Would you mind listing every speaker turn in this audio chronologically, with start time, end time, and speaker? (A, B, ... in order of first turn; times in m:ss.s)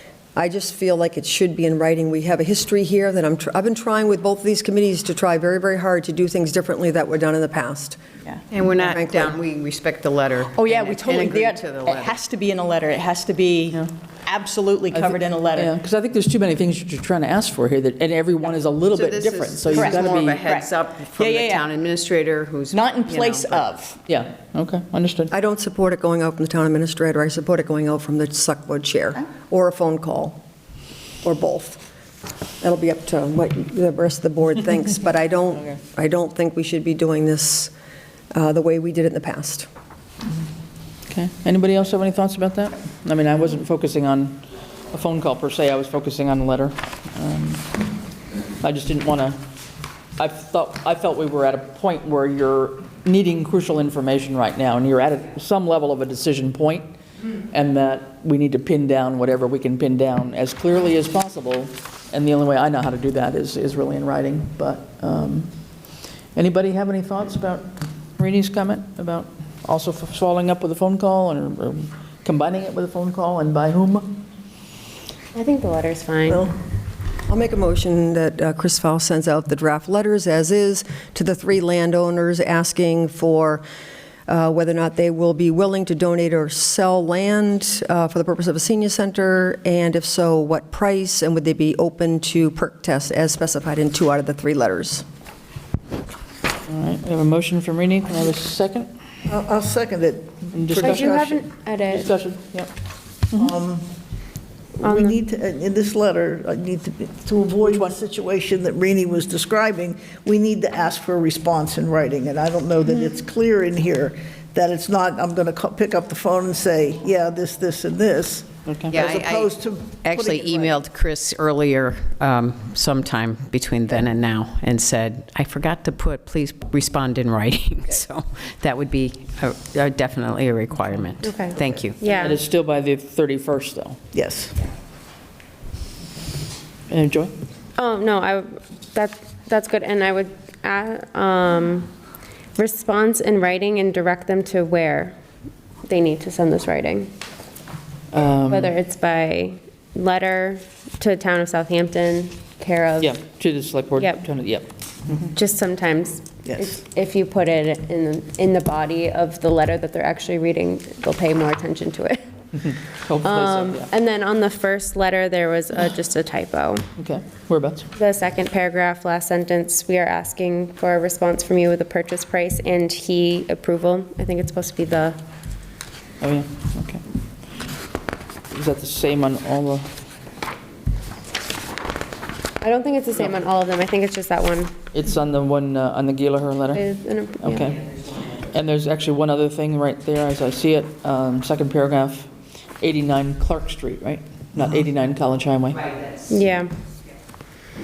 0:00.4-0:08.0 A
0:08.5-0:12.2 B
0:08.8-0:09.4 A
0:10.5-0:15.7 C
0:14.9-0:20.4 D
0:18.9-0:23.7 B
0:19.6-0:21.7 C
0:22.7-0:24.0 C
0:24.0-0:25.3 D
0:25.3-0:30.4 A
0:31.2-0:31.8 A
0:32.6-0:37.7 A
0:38.3-0:39.7 A
0:41.1-0:47.7 D
0:48.6-0:49.4 D
0:50.2-0:56.9 D
0:57.5-1:05.5 D
1:06.3-1:14.2 D
1:15.3-1:16.5 E
1:17.3-1:23.6 A
1:24.3-1:35.0 A
1:36.7-1:38.9 D
1:39.3-1:41.5 F
1:40.5-1:41.1 D
1:40.7-1:42.1 E
1:41.9-1:42.7 D
1:43.3-1:43.8 F
1:44.7-2:00.8 F
1:44.8-1:45.2 E
1:58.6-1:58.9 D
1:58.9-2:12.0 B
2:11.2-2:12.4 E
2:12.0-2:14.0 D
2:14.1-2:14.6 F
2:16.9-2:17.3 D
2:17.8-2:21.9 E
2:22.5-2:25.1 E
2:25.8-2:27.1 E
2:28.1-2:28.7 D
2:28.5-2:33.2 E
2:33.0-2:35.2 D
2:34.0-2:34.2 E
2:35.3-2:42.3 E
2:36.5-2:36.8 F
2:42.6-2:43.9 D
2:43.2-2:46.8 E
2:47.0-2:47.9 D
2:47.9-2:55.2 E
2:56.2-2:57.0 D
2:58.5-2:59.9 D
3:02.6-3:04.7 E
3:04.9-3:06.8 D
3:06.7-3:07.8 E
3:07.4-3:12.3 D
3:12.8-3:16.0 D
3:16.3-3:16.7 E